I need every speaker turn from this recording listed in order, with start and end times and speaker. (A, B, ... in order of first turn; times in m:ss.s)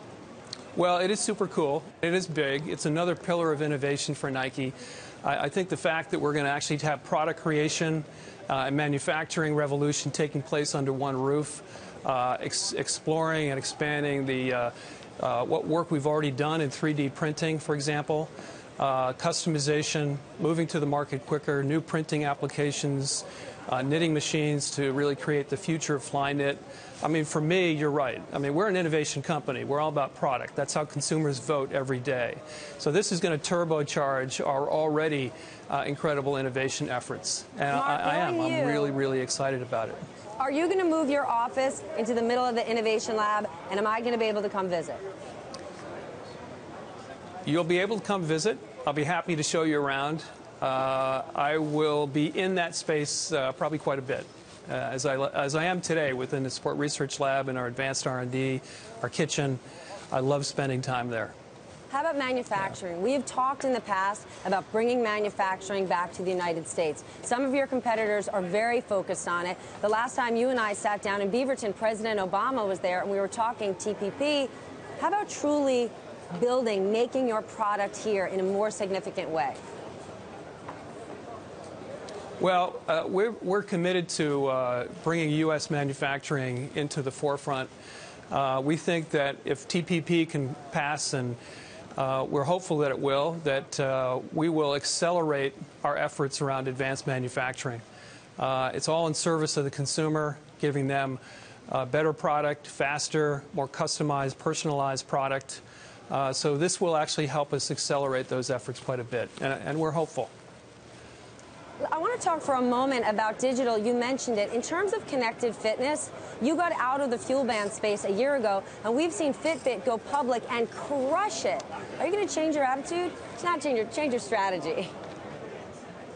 0:00.8-0:40.0 A
0:37.7-0:39.0 B
0:40.4-0:45.0 B
0:47.5-0:59.6 A
1:00.1-1:01.3 A
1:01.9-1:19.6 B
1:22.4-1:27.7 A
1:28.3-1:31.4 A
1:32.0-1:37.8 A
1:38.4-1:50.3 A
1:51.8-2:04.9 B